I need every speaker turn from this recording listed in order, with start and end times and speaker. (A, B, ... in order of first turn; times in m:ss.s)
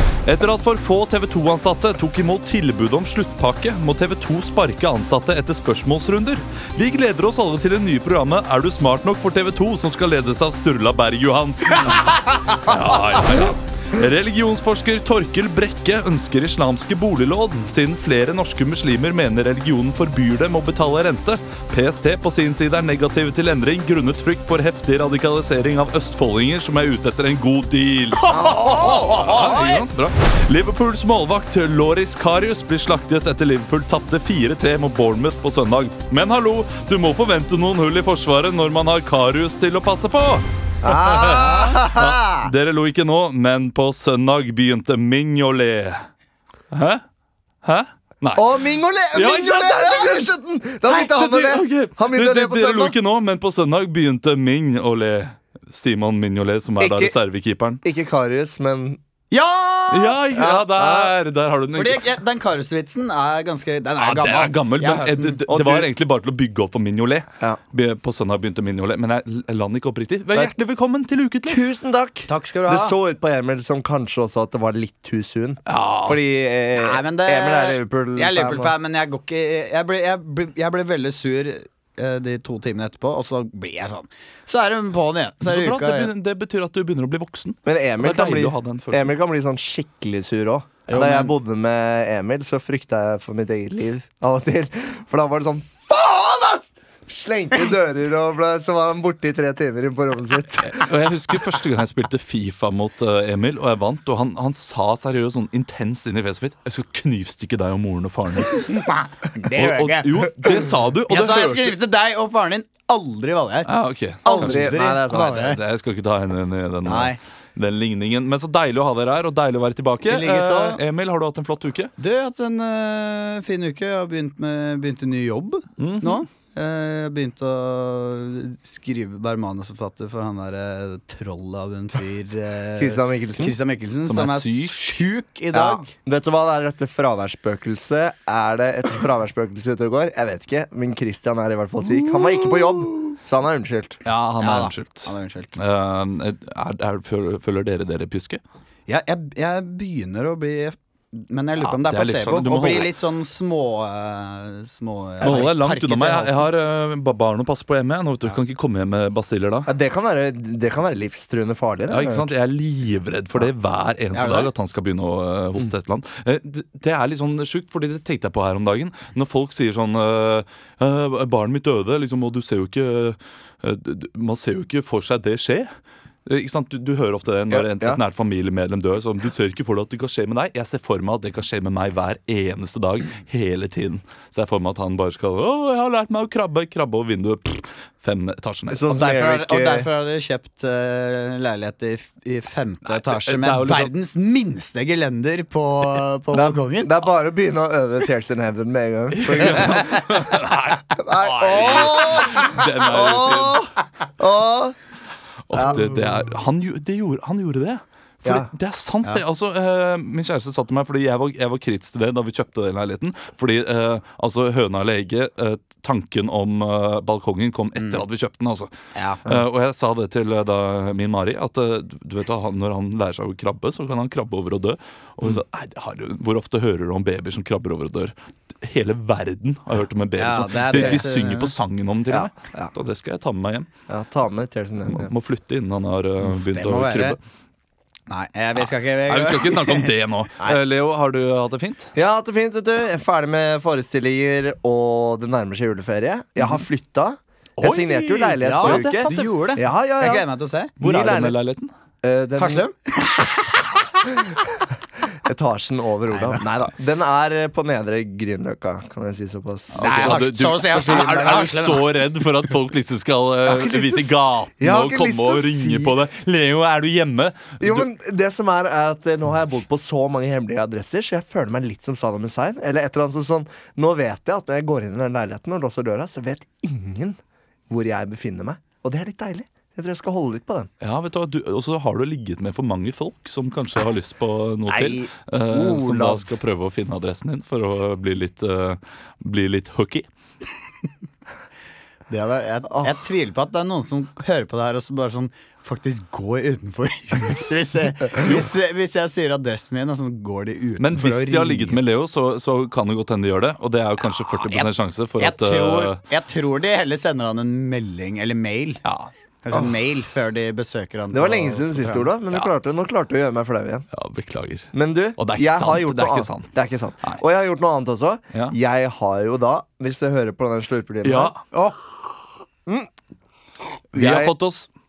0:00.2-0:46.1 A
0:28.2-0:29.8 B
0:28.4-0:28.9 C
0:40.8-0:42.5 C
0:41.2-0:42.0 B
0:46.7-0:47.0 A
0:47.6-0:48.6 A
0:48.4-0:53.0 C
0:49.1-0:50.3 A
0:50.8-0:57.8 A
0:56.8-0:57.1 C
0:57.8-0:59.0 C
0:59.3-1:00.2 B
0:59.9-1:02.0 A
1:00.3-1:01.1 C
1:01.7-1:05.4 B
1:04.0-1:11.6 A
1:05.5-1:05.9 C
1:11.4-1:18.7 C
1:12.3-1:13.0 B
1:15.6-1:16.2 A
1:16.8-1:26.1 B
1:25.4-1:29.1 A
1:27.6-1:40.9 C
1:30.9-1:31.3 B
1:40.6-1:48.8 A
1:48.7-1:50.3 B
1:49.5-1:51.8 A
1:51.1-1:53.7 B
1:53.6-2:01.9 A
1:54.2-1:55.6 B
1:54.3-1:55.4 C
1:56.8-1:57.2 B
2:00.1-2:00.8 B
2:02.0-2:15.9 B
2:05.8-2:06.2 A
2:12.8-2:13.6 C
2:14.0-2:14.8 A
2:15.5-2:24.0 C
2:21.9-2:22.9 A
2:24.0-2:28.4 A
2:24.4-2:25.5 B
2:28.9-2:36.5 B
2:31.6-2:32.9 A
2:35.2-2:39.7 A
2:39.6-2:42.3 C
2:41.9-2:55.7 A
2:44.1-2:44.5 B
2:56.2-3:08.8 A
2:57.5-2:58.0 C
3:08.7-3:09.9 C
3:08.9-3:16.9 B
3:12.9-3:13.9 A
3:16.3-3:20.0 C
3:19.1-3:23.7 A
3:21.0-3:24.8 C
3:21.6-3:22.6 B
3:25.5-3:38.7 A
3:25.5-3:26.3 C
3:28.2-3:28.5 C
3:38.9-3:39.2 B
3:39.2-3:53.7 A
3:50.2-3:51.5 B
3:50.7-3:51.0 C
3:52.1-3:52.7 C
3:53.9-3:55.1 C
3:54.8-3:57.2 A
3:56.3-3:57.2 B
3:58.1-3:59.9 B
3:59.1-4:01.9 A
4:01.9-4:10.2 C
4:07.6-4:09.3 A
4:08.4-4:10.7 B
4:10.8-4:11.4 C
4:10.8-4:11.7 A
4:12.0-4:12.6 C
4:12.4-4:14.2 B
4:15.2-4:20.2 C
4:16.1-4:16.4 B
4:19.7-4:27.8 A
4:19.8-4:21.8 B
4:23.4-4:25.9 C
4:27.6-4:37.2 C
4:37.7-4:40.7 C
4:40.8-4:50.1 A
4:44.7-4:46.2 C
4:52.1-5:01.8 B
4:52.7-4:52.9 C
5:00.8-5:06.0 A
5:04.4-5:08.8 B
5:08.8-5:09.1 A
5:09.4-5:12.1 B
5:11.1-5:13.9 C
5:13.9-5:16.5 A
5:14.7-5:21.3 C
5:21.0-5:21.4 A
5:21.5-5:21.8 B
5:23.9-5:24.7 A
5:23.9-5:24.3 C